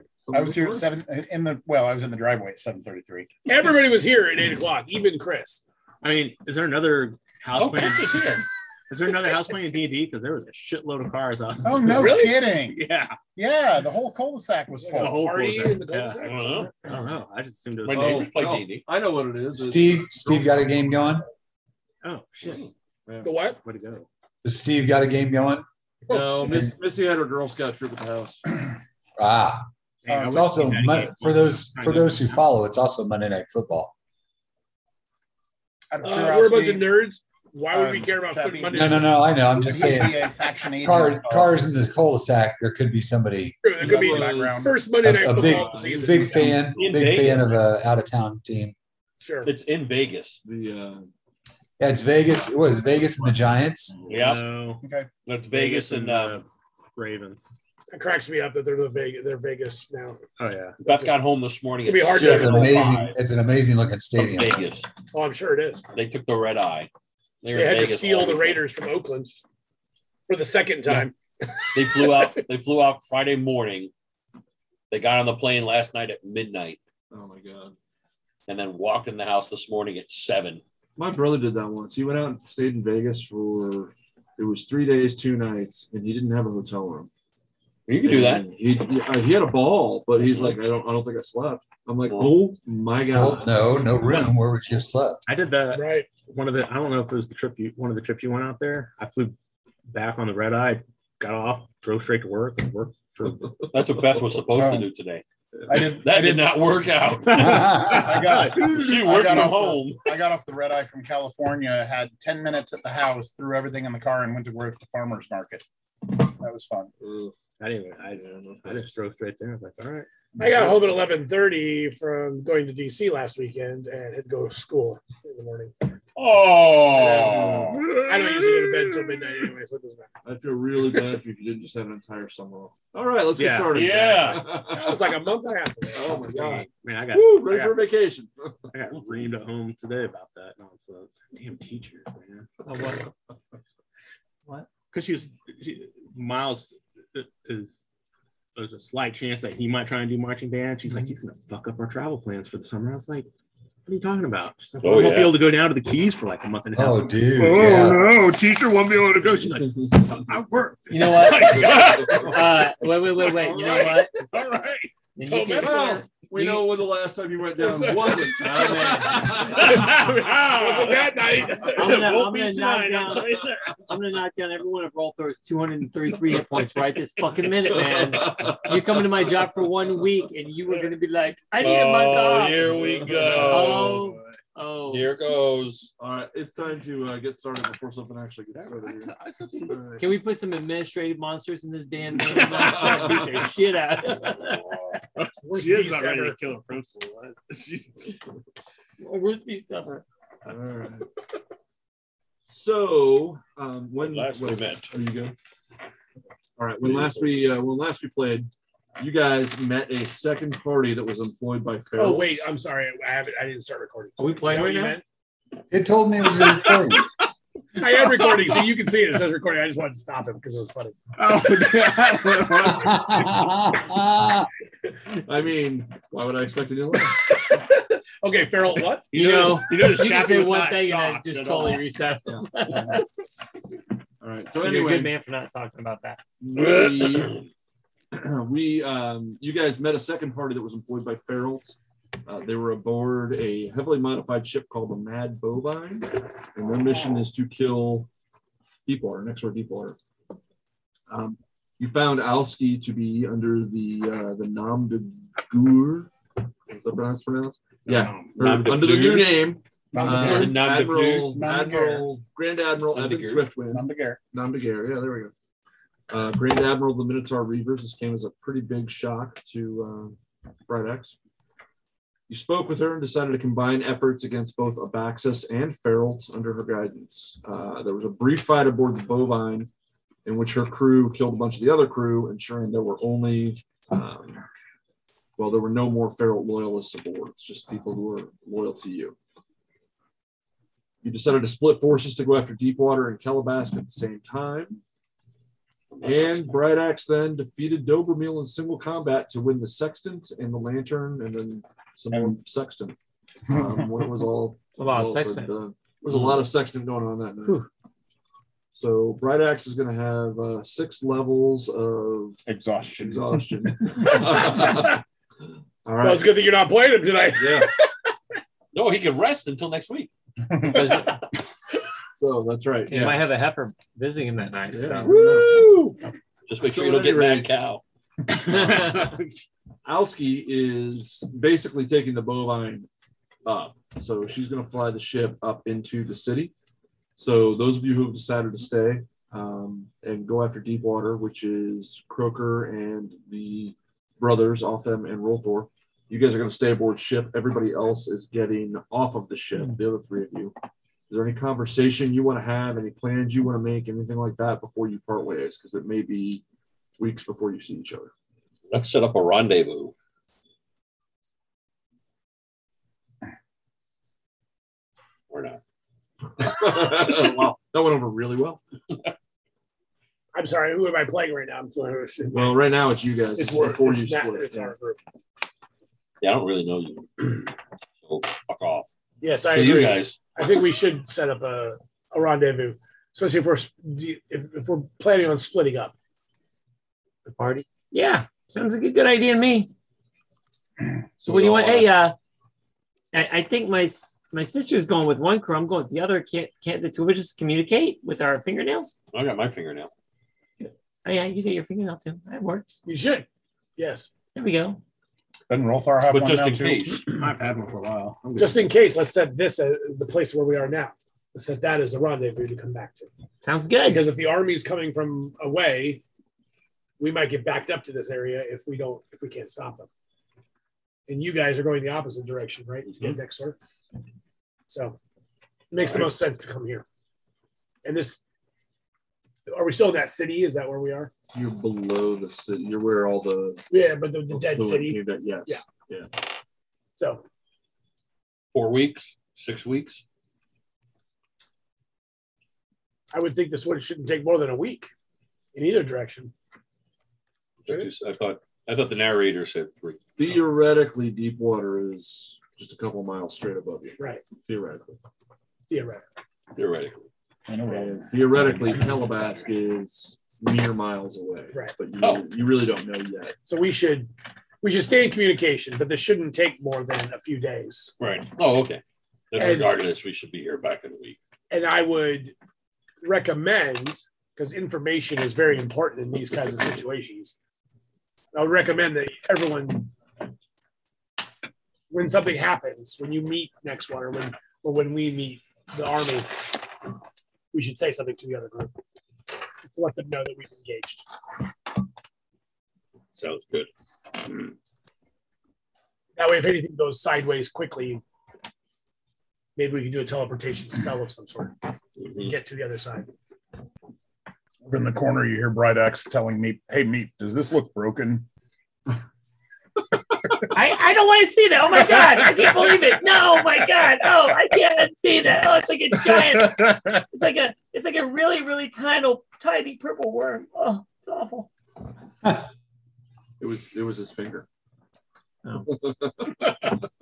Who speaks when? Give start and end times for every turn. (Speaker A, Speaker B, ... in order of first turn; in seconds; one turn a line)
Speaker A: 0.3-0.9
Speaker B: 0.3-3.3
Speaker C: 3.5-5.6
Speaker D: 6.0-8.4
Speaker E: 7.5-8.5
Speaker D: 8.9-13.2
Speaker B: 11.6-12.8
Speaker C: 11.9-12.5
Speaker B: 13.3-15.4
Speaker C: 14.8-16.7
Speaker D: 14.9-18.3
Speaker E: 16.2-16.7
Speaker E: 17.8-18.9
Speaker A: 17.9-21.1
Speaker F: 19.5-21.2
Speaker D: 22.0-22.7
Speaker A: 23.1-23.3
Speaker C: 23.2-23.6
Speaker D: 23.6-24.1
Speaker F: 24.4-25.6
Speaker C: 26.1-26.5
Speaker A: 26.1-28.4
Speaker F: 26.4-26.7
Speaker F: 29.2-29.7
Speaker D: 30.0-32.3
Speaker B: 30.1-30.4
Speaker F: 30.2-33.9
Speaker B: 35.9-36.9
Speaker C: 36.0-39.1
Speaker B: 37.7-41.6
Speaker F: 38.7-40.3
Speaker F: 40.8-43.6
Speaker C: 43.6-46.6
Speaker B: 43.8-44.8
Speaker A: 43.8-44.7
Speaker F: 45.0-48.7
Speaker A: 45.3-46.5
Speaker E: 46.7-47.5
Speaker C: 49.2-49.5
Speaker E: 49.4-50.4
Speaker A: 50.4-51.1
Speaker F: 51.8-54.0
Speaker D: 54.0-54.8
Speaker E: 54.1-54.5
Speaker B: 54.8-55.1
Speaker E: 55.2-56.4
Speaker D: 55.5-57.5
Speaker C: 57.9-60.2
Speaker D: 60.4-60.8
Speaker C: 60.8-61.2
Speaker E: 60.8-63.1
Speaker C: 61.8-63.0
Speaker F: 62.2-64.6
Speaker E: 64.2-64.9
Speaker C: 65.1-65.8
Speaker E: 65.9-66.9
Speaker E: 67.4-68.6
Speaker C: 67.5-69.4
Speaker C: 70.3-72.4
Speaker E: 71.7-73.9
Speaker E: 74.9-76.8
Speaker A: 77.1-77.8
Speaker E: 78.5-80.6
Speaker A: 81.0-87.1
Speaker E: 87.9-88.5
Speaker A: 88.0-93.8
Speaker E: 90.2-90.6
Speaker E: 92.0-92.4
Speaker F: 93.1-95.2
Speaker D: 95.3-99.4
Speaker C: 95.7-96.1
Speaker D: 99.9-103.5
Speaker E: 103.7-105.2
Speaker B: 104.5-104.9
Speaker B: 105.7-106.6
Speaker E: 105.8-107.6
Speaker F: 107.4-108.2
Speaker B: 107.4-116.9
Speaker D: 107.4-109.0
Speaker E: 108.7-110.1
Speaker A: 117.0-117.4
Speaker D: 117.6-120.1
Speaker A: 118.1-118.9
Speaker B: 120.3-120.9
Speaker C: 120.4-125.7
Speaker B: 126.2-128.0
Speaker A: 127.0-128.7
Speaker D: 127.1-127.9
Speaker C: 127.9-130.1
Speaker A: 130.2-135.1
Speaker D: 133.3-133.9
Speaker E: 133.7-134.5
Speaker C: 134.6-136.2
Speaker A: 135.9-138.6
Speaker D: 136.3-137.8
Speaker D: 138.7-142.5
Speaker G: 142.7-143.1
Speaker D: 144.9-147.8
Speaker D: 148.5-153.3
Speaker D: 153.8-162.5
Speaker E: 154.8-155.5
Speaker F: 156.7-158.1
Speaker B: 157.4-159.2
Speaker G: 160.9-164.1
Speaker A: 161.6-162.7
Speaker A: 163.2-164.0
Speaker D: 164.2-164.8
Speaker G: 165.2-166.7
Speaker C: 165.2-165.9
Speaker A: 165.6-170.1
Speaker C: 167.6-168.5
Speaker G: 168.4-169.5
Speaker C: 169.5-172.3
Speaker D: 169.8-171.2
Speaker G: 171.6-173.3
Speaker D: 171.9-173.5
Speaker G: 173.8-182.8
Speaker A: 177.7-179.3
Speaker E: 181.6-184.0
Speaker A: 182.6-183.9
Speaker G: 183.4-185.1
Speaker D: 183.9-184.3
Speaker E: 184.9-185.9
Speaker A: 186.0-190.0
Speaker D: 188.5-190.0
Speaker G: 190.0-194.6
Speaker A: 192.5-193.5
Speaker C: 192.7-193.1
Speaker E: 194.4-194.7
Speaker D: 195.2-198.1
Speaker C: 195.4-196.4
Speaker G: 199.0-200.0
Speaker A: 200.4-201.1
Speaker A: 202.4-205.3
Speaker E: 204.0-204.9
Speaker A: 206.6-212.4
Speaker E: 206.8-207.4
Speaker C: 211.9-215.0
Speaker G: 214.2-215.0
Speaker F: 215.7-217.1
Speaker C: 217.8-221.0
Speaker D: 221.2-222.9
Speaker B: 221.5-222.8
Speaker F: 222.7-224.5
Speaker A: 225.1-227.2
Speaker C: 228.2-229.2
Speaker D: 229.1-231.8
Speaker G: 229.1-233.0
Speaker A: 234.2-235.1
Speaker G: 234.6-236.2
Speaker A: 236.4-237.4
Speaker A: 238.1-248.1
Speaker A: 248.8-250.0
Speaker A: 251.1-256.1
Speaker A: 256.7-265.3
Speaker D: 257.8-258.4
Speaker E: 258.2-259.4
Speaker B: 259.9-260.6
Speaker E: 260.0-261.4
Speaker B: 261.3-262.1
Speaker E: 262.9-263.5
Speaker B: 263.7-264.2
Speaker A: 266.1-271.1
Speaker A: 272.3-279.7
Speaker A: 280.2-284.4
Speaker A: 285.4-289.1
Speaker A: 291.0-294.8
Speaker E: 295.9-296.6
Speaker A: 296.0-303.0
Speaker B: 302.1-302.4
Speaker A: 303.5-307.6
Speaker B: 303.5-304.0
Speaker G: 304.8-305.5
Speaker E: 306.1-306.4
Speaker A: 308.7-312.4
Speaker B: 312.5-314.2
Speaker A: 313.0-315.0
Speaker C: 314.5-314.8
Speaker A: 315.8-316.4
Speaker C: 316.0-317.9
Speaker A: 317.3-317.7
Speaker E: 318.7-320.1
Speaker B: 320.5-320.8
Speaker G: 320.6-321.2
Speaker A: 322.2-323.3
Speaker G: 322.9-325.1
Speaker A: 324.7-325.8
Speaker E: 325.1-325.9
Speaker E: 326.5-327.8
Speaker A: 326.6-327.5
Speaker D: 328.3-329.2
Speaker G: 328.6-329.1
Speaker A: 329.8-332.9
Speaker A: 333.4-336.5
Speaker A: 337.1-350.5
Speaker A: 351.1-356.4
Speaker A: 357.0-358.1
Speaker E: 358.7-359.9
Speaker E: 365.3-365.6
Speaker A: 366.4-368.6
Speaker C: 370.3-372.6
Speaker A: 372.3-374.7
Speaker C: 373.4-375.0
Speaker E: 376.2-378.9
Speaker C: 379.2-385.9
Speaker E: 379.5-380.2
Speaker G: 387.3-389.7
Speaker E: 391.2-391.9
Speaker G: 391.2-392.1
Speaker G: 393.1-399.0
Speaker E: 399.1-399.9
Speaker G: 400.6-402.8
Speaker C: 402.9-404.1
Speaker G: 404.3-404.8
Speaker B: 405.5-407.3
Speaker E: 406.1-407.0
Speaker D: 407.1-408.7
Speaker C: 408.4-413.1
Speaker G: 413.4-414.1
Speaker C: 413.8-416.0
Speaker C: 417.0-419.9
Speaker C: 421.1-423.6
Speaker C: 424.7-425.0
Speaker C: 425.7-426.8
Speaker C: 427.8-428.2
Speaker C: 429.5-431.1
Speaker A: 431.3-433.6
Speaker C: 433.7-435.6
Speaker A: 434.3-436.1
Speaker C: 437.0-437.2
Speaker E: 438.5-440.0
Speaker C: 443.1-444.9
Speaker C: 445.5-446.3
Speaker E: 447.6-450.0
Speaker A: 450.1-455.0
Speaker C: 454.0-454.2
Speaker C: 455.7-456.0
Speaker E: 456.5-457.1
Speaker B: 457.5-459.1
Speaker A: 457.6-463.4
Speaker C: 463.4-467.9
Speaker E: 468.0-471.2
Speaker C: 469.4-469.8
Speaker C: 471.5-472.3
Speaker C: 473.0-477.4
Speaker C: 478.3-479.9
Speaker C: 481.9-486.5
Speaker C: 487.5-488.7
Speaker C: 489.6-491.1
Speaker E: 493.1-493.7
Speaker C: 496.2-498.0
Speaker C: 499.6-501.6
Speaker E: 502.0-502.3
Speaker C: 502.1-503.1
Speaker B: 504.6-508.2
Speaker G: 510.5-521.5
Speaker A: 523.4-524.5
Speaker G: 525.4-525.7
Speaker A: 525.7-526.5